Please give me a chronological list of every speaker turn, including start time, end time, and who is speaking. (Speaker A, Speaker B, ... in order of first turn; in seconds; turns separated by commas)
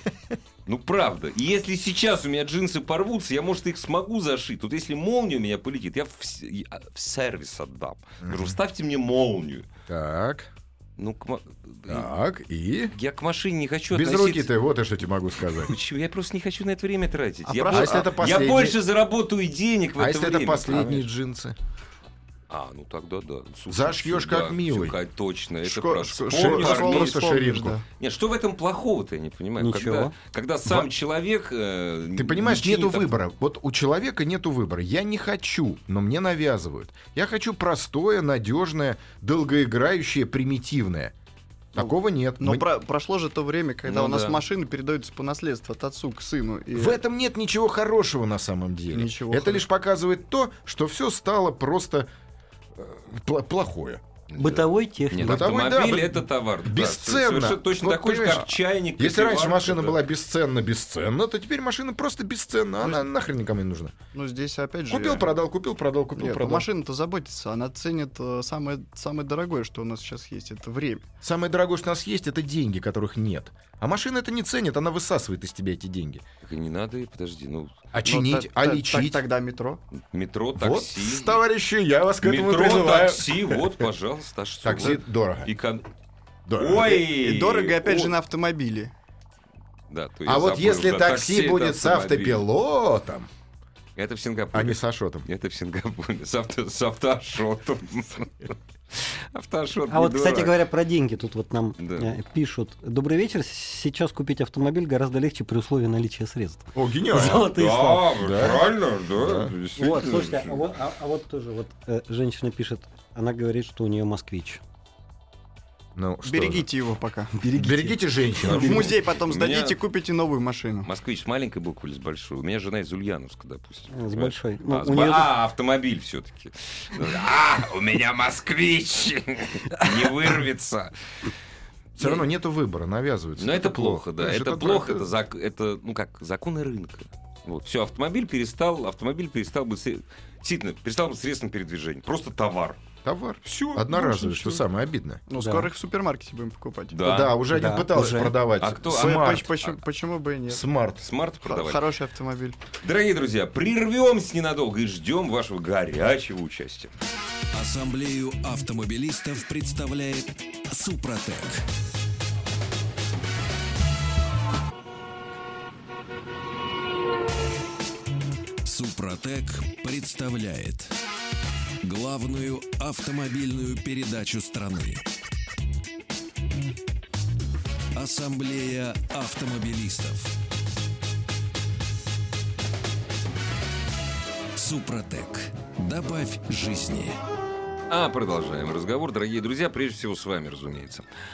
Speaker A: 0.7-9.7, Speaker B: 8.2-8.6, Speaker B: 9.9-10.5, Speaker A: 11.0-12.1, Speaker B: 11.9-12.9, Speaker A: 12.9-14.5, Speaker B: 13.9-15.8, Speaker A: 15.6-21.0, Speaker C: 17.4-18.1, Speaker B: 17.7-18.8, Speaker B: 20.0-21.6, Speaker A: 22.5-27.4, Speaker B: 23.7-25.0, Speaker C: 25.6-27.8, Speaker B: 26.3-27.8, Speaker A: 28.0-33.1, Speaker D: 29.6-30.1, Speaker B: 32.1-41.1, Speaker B: 41.7-42.7, Speaker C: 41.8-47.0, Speaker A: 43.8-44.4, Speaker B: 46.7-52.1, Speaker C: 48.9-49.6, Speaker B: 52.7-54.0, Speaker A: 54.3-60.0, Speaker D: 54.4-55.5, Speaker B: 55.2-63.9, Speaker C: 62.8-63.1, Speaker C: 64.1-65.3, Speaker B: 64.9-66.7, Speaker C: 66.2-71.0, Speaker B: 71.2-76.2, Speaker A: 76.4-77.9, Speaker B: 77.9-79.3, Speaker C: 78.0-79.8, Speaker A: 79.9-81.4, Speaker B: 80.5-83.8, Speaker A: 82.2-85.9, Speaker B: 84.6-85.5, Speaker B: 86.5-87.0, Speaker A: 86.6-88.1, Speaker C: 86.8-88.9, Speaker A: 89.9-92.4, Speaker B: 90.2-93.3, Speaker A: 94.0-100.6, Speaker B: 94.5-95.2, Speaker D: 99.9-108.1, Speaker A: 101.8-102.1, Speaker B: 106.7-107.5, Speaker A: 107.2-110.6, Speaker B: 108.2-109.5, Speaker D: 109.8-114.6, Speaker B: 115.9-116.7, Speaker C: 116.2-117.3, Speaker D: 117.4-118.0, Speaker B: 117.5-118.9, Speaker A: 118.4-119.8, Speaker C: 118.6-120.9, Speaker A: 120.8-131.3, Speaker D: 123.9-125.3, Speaker B: 132.0-135.1, Speaker A: 132.0-132.2, Speaker A: 133.4-142.8, Speaker B: 143.0-145.2, Speaker C: 143.7-144.5, Speaker C: 145.3-147.0, Speaker D: 145.4-145.7, Speaker A: 146.9-147.4, Speaker B: 147.0-149.5, Speaker D: 147.5-148.4, Speaker A: 148.6-149.8, Speaker C: 148.9-150.6, Speaker B: 150.5-151.1, Speaker A: 151.0-151.9, Speaker C: 151.4-152.6, Speaker A: 152.8-156.9, Speaker E: 157.5-161.6, Speaker E: 168.6-170.9, Speaker E: 171.8-175.0, Speaker E: 177.9-180.3, Speaker E: 184.6-187.2, Speaker A: 187.9-191.1